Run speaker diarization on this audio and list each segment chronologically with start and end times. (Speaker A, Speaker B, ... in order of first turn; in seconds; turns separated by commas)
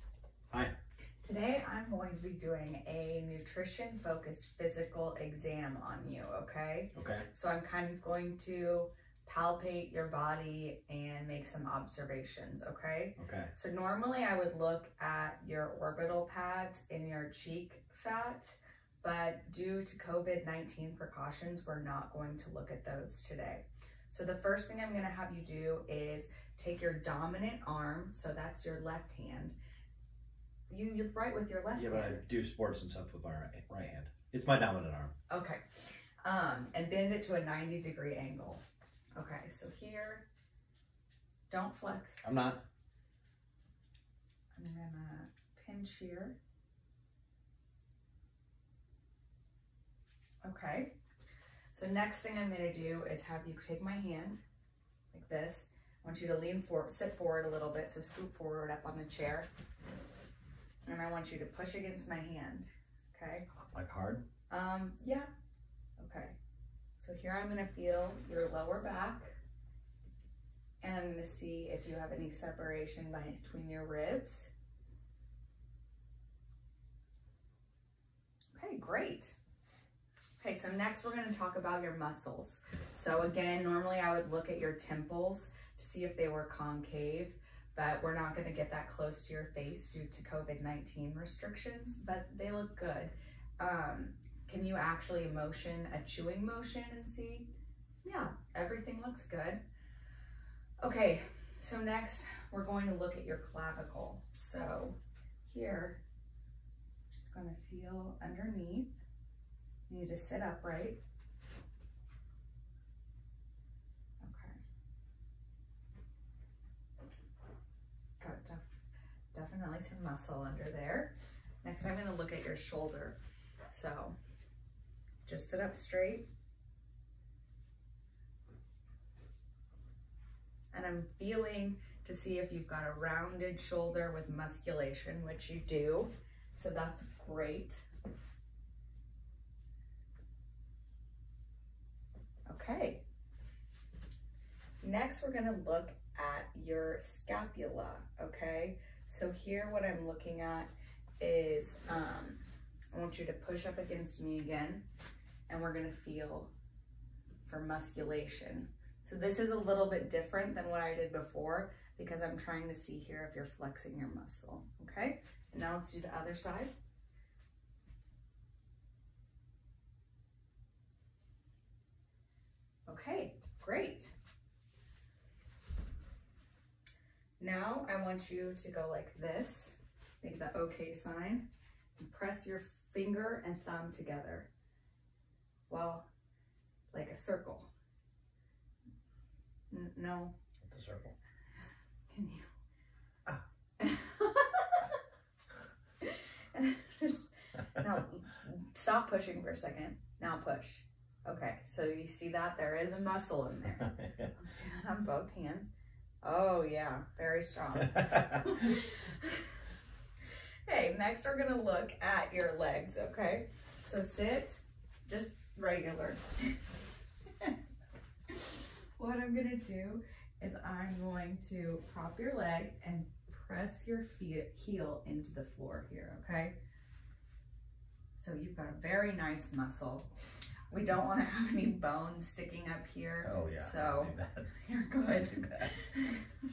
Speaker A: 0.5-0.7, Speaker B: 1.2-29.6, Speaker A: 6.9-7.2, Speaker A: 13.2-13.5, Speaker B: 30.7-32.2, Speaker A: 31.7-35.1, Speaker B: 35.3-35.6, Speaker B: 36.2-38.6, Speaker B: 39.1-40.3, Speaker B: 41.5-42.2, Speaker A: 42.2-42.6, Speaker B: 44.5-46.4, Speaker B: 50.4-50.9, Speaker B: 51.7-54.4, Speaker B: 55.1-59.5, Speaker B: 60.9-63.5, Speaker A: 63.7-64.2, Speaker B: 64.5-65.3, Speaker B: 66.0-66.3, Speaker B: 67.0-69.3, Speaker B: 70.8-74.5, Speaker B: 78.5-79.3, Speaker B: 80.4-97.5, Speaker B: 98.0-99.6, Speaker B: 100.8-106.0, Speaker B: 107.1-109.0, Speaker B: 109.9-111.0, Speaker B: 114.2-114.6, Speaker B: 118.2-118.6, Speaker B: 119.3-123.2, Speaker B: 123.7-124.1, Speaker B: 125.2-126.3, Speaker B: 130.7-137.8, Speaker B: 142.5-143.0, Speaker B: 144.8-154.8, Speaker B: 155.5-156.5, Speaker B: 157.4-166.7, Speaker B: 172.8-174.1, Speaker B: 177.4-184.5, Speaker B: 185.7-186.1, Speaker B: 186.9-187.7, Speaker B: 189.7-190.3, Speaker A: 190.6-191.1, Speaker B: 192.1-192.4, Speaker B: 193.8-195.0, Speaker B: 196.0-205.7, Speaker B: 206.2-209.4, Speaker B: 210.7-216.6, Speaker B: 218.3-226.6, Speaker B: 228.2-230.1, Speaker B: 230.7-236.2, Speaker A: 233.2-234.5, Speaker A: 235.1-235.7